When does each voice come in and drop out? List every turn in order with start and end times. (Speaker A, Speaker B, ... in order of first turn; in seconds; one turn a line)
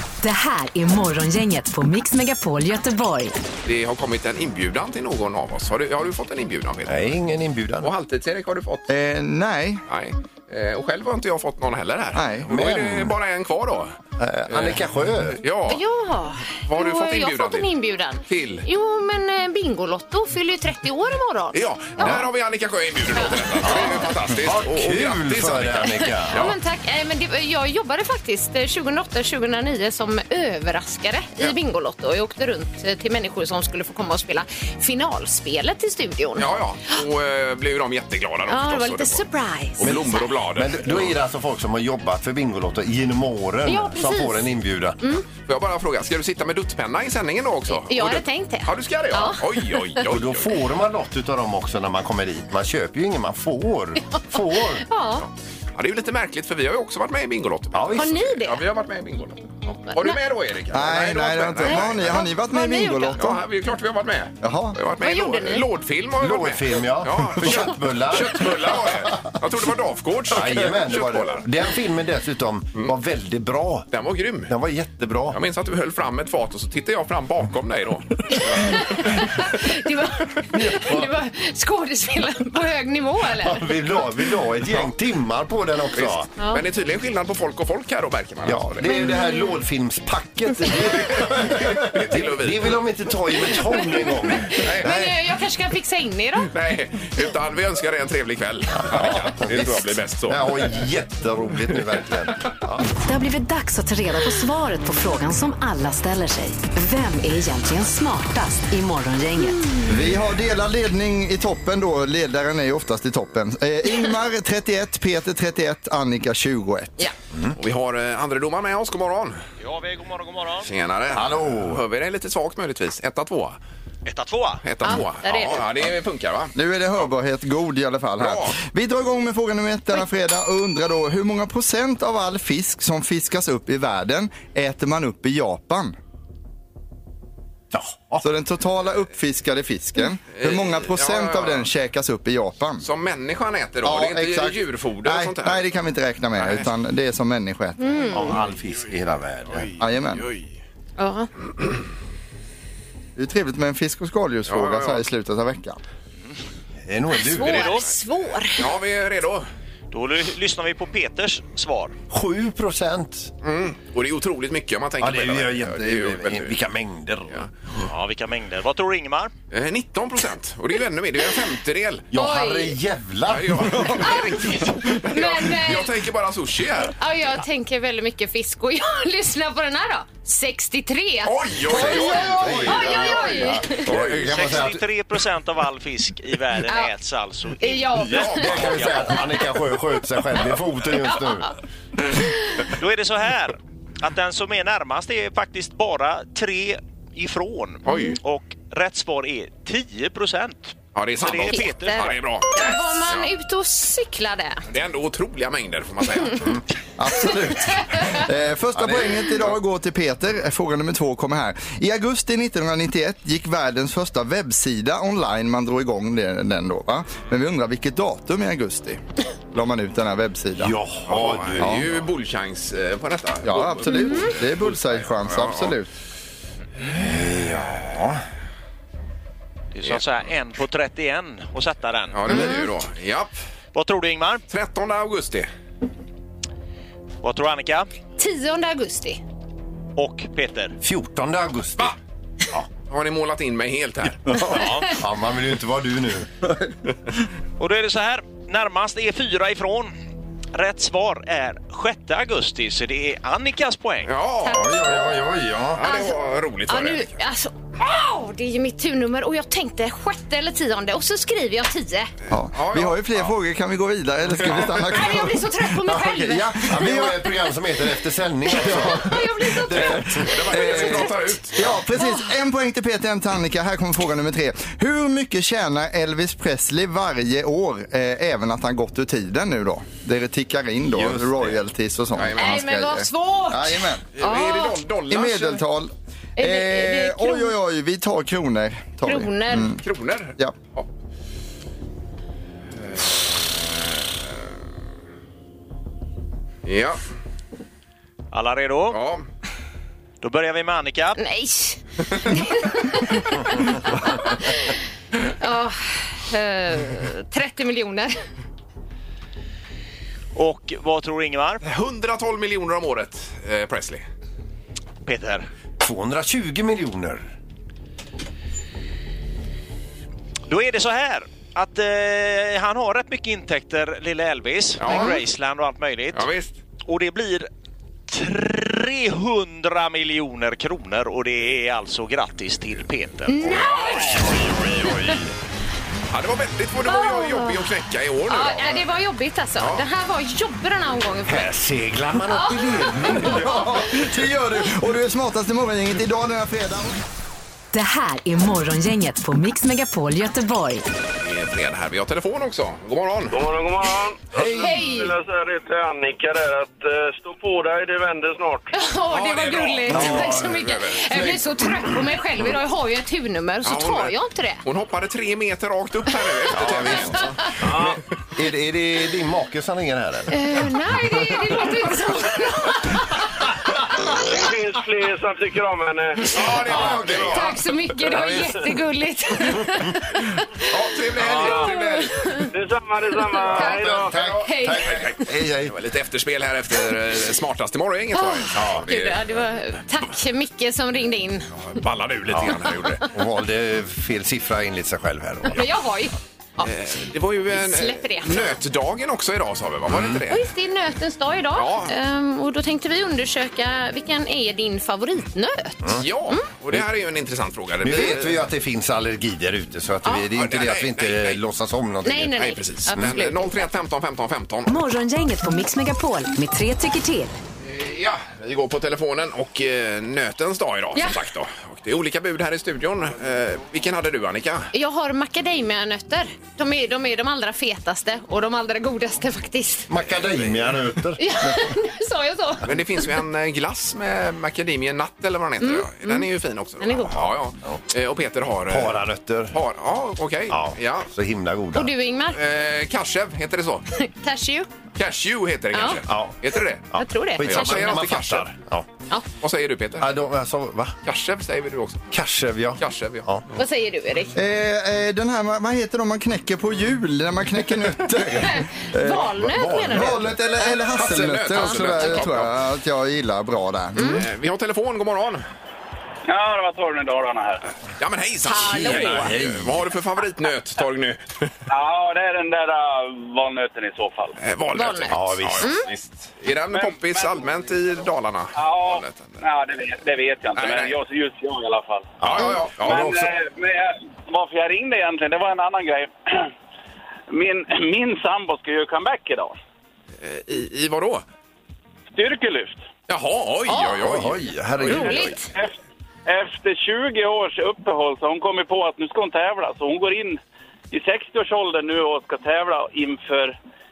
Speaker A: 0.2-3.4
Speaker B: 3.6-7.1
Speaker C: 6.8-7.9
Speaker B: 7.8-8.9
Speaker D: 8.9-9.8
Speaker B: 9.9-14.0
Speaker D: 12.1-12.5
Speaker C: 12.4-13.1
Speaker C: 14.2-15.4
Speaker B: 14.5-14.8
Speaker B: 15.4-15.8
Speaker E: 15.7-22.2
Speaker B: 16.4-17.7
Speaker B: 18.2-18.6
Speaker B: 21.5-26.6
Speaker E: 23.2-23.9
Speaker C: 23.6-26.4
Speaker E: 26.0-37.0
Speaker B: 36.4-39.2
Speaker E: 38.5-40.4
Speaker B: 39.8-41.2
Speaker C: 39.8-45.1
Speaker E: 43.6-45.2
Speaker B: 45.5-50.5
Speaker E: 47.7-49.7
Speaker C: 50.0-54.9
Speaker E: 54.8-55.2
Speaker B: 55.2-62.2
Speaker C: 57.7-58.1
Speaker E: 57.9-58.6
Speaker E: 59.7-60.2
Speaker D: 60.7-63.4
Speaker E: 61.6-63.2
Speaker B: 63.2-71.5
Speaker D: 64.4-64.8
Speaker E: 65.0-65.7
Speaker C: 66.2-69.3
Speaker C: 70.3-73.9
Speaker B: 73.9-74.5
Speaker C: 74.5-75.4
Speaker B: 75.3-79.4
Speaker E: 78.3-83.7
Speaker C: 80.6-81.0
Speaker C: 83.4-86.3
Speaker B: 85.9-89.0
Speaker E: 86.4-86.6
Speaker C: 88.4-95.2
Speaker E: 89.1-89.5
Speaker B: 91.2-92.9
Speaker E: 93.5-96.5
Speaker B: 94.6-94.9
Speaker B: 96.5-100.8
Speaker C: 98.8-102.8
Speaker A: 103.0-109.7
Speaker D: 109.8-117.0
Speaker B: 117.5-119.4
Speaker F: 119.6-120.7
Speaker B: 120.6-123.6
Speaker C: 121.1-121.8
Speaker F: 124.0-124.7
Speaker B: 124.6-126.5
Speaker E: 124.8-125.7
Speaker D: 126.5-135.9
Speaker B: 128.2-128.6
Speaker C: 137.7-138.2
Speaker D: 138.2-142.8
Speaker B: 140.3-141.7
Speaker B: 142.8-145.7
Speaker D: 143.8-148.1
Speaker B: 146.4-146.7
Speaker E: 147.8-148.2
Speaker C: 148.1-149.7
Speaker D: 149.8-150.2
Speaker B: 150.2-150.4
Speaker E: 151.0-151.3
Speaker D: 153.2-155.8
Speaker B: 154.5-155.1
Speaker C: 156.8-157.8
Speaker E: 157.2-158.7
Speaker F: 157.4-157.9
Speaker B: 158.6-159.5
Speaker F: 159.9-161.9
Speaker C: 162.1-163.3
Speaker B: 163.4-166.5
Speaker C: 165.0-167.4
Speaker F: 167.8-169.3
Speaker B: 169.5-172.1
Speaker C: 172.1-174.7
Speaker E: 172.1-172.8
Speaker B: 173.3-176.9
Speaker E: 174.0-175.9
Speaker E: 177.0-183.9
Speaker B: 181.2-184.8
Speaker C: 181.6-184.8
Speaker F: 184.1-189.1
Speaker E: 186.7-186.9
Speaker E: 187.6-188.6
Speaker B: 188.1-189.0
Speaker C: 188.3-191.5
Speaker F: 192.7-202.2
Speaker B: 197.8-198.2
Speaker E: 197.9-198.1
Speaker B: 200.9-203.3
Speaker E: 201.5-204.6
Speaker B: 204.7-206.6
Speaker D: 207.0-219.0
Speaker C: 208.7-209.4
Speaker D: 219.5-220.7
Speaker C: 220.6-222.0
Speaker B: 221.1-225.7
Speaker D: 221.6-221.8
Speaker D: 223.4-225.9
Speaker E: 223.9-224.3
Speaker C: 226.8-228.2
Speaker F: 229.7-232.5
Speaker B: 232.1-233.3
Speaker E: 232.3-232.6
Speaker F: 233.7-234.4
Speaker B: 234.5-235.5
Speaker F: 237.2-237.9
Speaker E: 238.2-239.2
Speaker F: 239.9-240.8
Speaker C: 240.8-241.9
Speaker B: 242.8-244.4
Speaker C: 244.3-246.3
Speaker F: 244.4-245.0
Speaker F: 247.6-249.9
Speaker F: 250.5-254.1
Speaker B: 254.1-254.9
Speaker E: 254.4-255.0
Speaker C: 254.5-255.8
Speaker B: 255.7-257.1
Speaker E: 255.8-262.1
Speaker D: 262.3-265.7
Speaker B: 262.5-263.3
Speaker E: 264.9-267.5
Speaker C: 265.8-271.1
Speaker E: 268.4-271.0
Speaker D: 269.7-270.9
Speaker B: 269.8-271.6
Speaker D: 271.6-284.1
Speaker E: 271.9-272.3
Speaker C: 280.9-281.6
Speaker B: 282.1-282.7
Speaker E: 282.4-284.8
Speaker B: 284.1-285.6
Speaker D: 285.1-289.8
Speaker E: 286.4-287.5
Speaker E: 289.0-289.7
Speaker B: 289.8-290.9
Speaker B: 292.8-294.2
Speaker B: 296.6-297.0
Speaker F: 298.3-299.0
Speaker B: 298.9-299.2
Speaker F: 300.2-301.2
Speaker E: 301.2-304.7
Speaker E: 305.4-308.2
Speaker F: 310.3-311.6
Speaker B: 311.6-314.0
Speaker F: 315.0-315.5
Speaker C: 315.8-317.2
Speaker F: 320.5-327.5
Speaker B: 324.8-325.2
Speaker B: 326.1-326.5
Speaker F: 328.1-334.2
Speaker E: 333.3-335.1
Speaker B: 333.6-334.1
Speaker C: 334.4-335.2
Speaker B: 336.1-338.8
Speaker E: 336.8-337.6
Speaker E: 338.3-341.5
Speaker C: 341.2-343.9
Speaker E: 342.3-343.5
Speaker D: 343.2-347.0
Speaker A: 347.7-350.9
Speaker B: 351.2-353.4
Speaker G: 353.3-358.7
Speaker E: 354.4-355.1
Speaker E: 358.7-364.6
Speaker B: 359.1-361.2
Speaker C: 359.9-361.6
Speaker B: 363.6-367.4
Speaker C: 366.5-371.6
Speaker E: 370.3-373.2
Speaker G: 374.3-376.3
Speaker B: 376.3-377.6
Speaker C: 376.4-378.6
Speaker E: 377.3-380.7
Speaker B: 380.7-382.1
Speaker E: 381.3-382.5
Speaker G: 382.5-384.1
Speaker E: 383.3-385.2
Speaker C: 383.4-385.7
Speaker B: 384.1-389.3
Speaker E: 388.1-391.5
Speaker C: 388.5-388.9
Speaker B: 391.6-393.0
Speaker C: 392.3-395.6
Speaker E: 395.5-396.7
Speaker B: 396.6-400.5
Speaker E: 397.5-398.6
Speaker C: 399.9-400.2
Speaker E: 400.3-406.4
Speaker B: 401.5-401.9
Speaker B: 406.0-408.4
Speaker C: 407.8-413.2
Speaker B: 410.3-411.4
Speaker E: 412.0-413.7
Speaker B: 412.3-414.7
Speaker A: 414.7-417.4
Speaker B: 417.6-424.7
Speaker E: 424.7-429.9
Speaker C: 429.9-431.8
Speaker E: 431.2-432.7
Speaker B: 432.6-439.0
Speaker E: 435.6-436.2
Speaker E: 436.8-437.3
Speaker C: 438.7-439.6
Speaker B: 439.5-441.1
Speaker C: 440.5-441.9
Speaker E: 441.7-442.4
Speaker B: 442.3-443.8
Speaker E: 443.9-444.7
Speaker B: 444.9-448.5
Speaker E: 445.7-446.0
Speaker C: 446.1-446.3
Speaker C: 446.9-448.9
Speaker E: 446.9-448.0
Speaker B: 449.4-450.1
Speaker C: 450.0-451.0
Speaker B: 451.0-452.1
Speaker C: 452.1-453.4
Speaker B: 452.8-453.3
Speaker E: 453.5-454.4
Speaker D: 454.3-459.3
Speaker E: 458.4-460.7
Speaker C: 459.2-460.4
Speaker D: 459.9-464.2
Speaker B: 460.9-462.5
Speaker E: 461.6-462.1
Speaker E: 463.9-464.2
Speaker B: 464.0-465.4
Speaker H: 466.3-467.6
Speaker B: 468.0-471.5
Speaker E: 468.4-469.3
Speaker C: 468.5-469.8
Speaker H: 471.7-474.4
Speaker B: 474.4-479.4
Speaker E: 474.7-475.9
Speaker C: 475.1-475.7
Speaker H: 476.7-477.6
Speaker H: 478.5-482.1
Speaker B: 480.5-480.9
Speaker C: 482.2-483.3
Speaker B: 482.2-483.1
Speaker H: 482.8-486.1
Speaker H: 487.3-489.6
Speaker B: 490.2-491.2
Speaker H: 492.1-492.8
Speaker B: 493.1-495.3
Speaker E: 493.7-494.0
Speaker C: 494.0-495.3
Speaker E: 494.8-495.5
Speaker H: 496.2-500.4
Speaker H: 500.9-503.6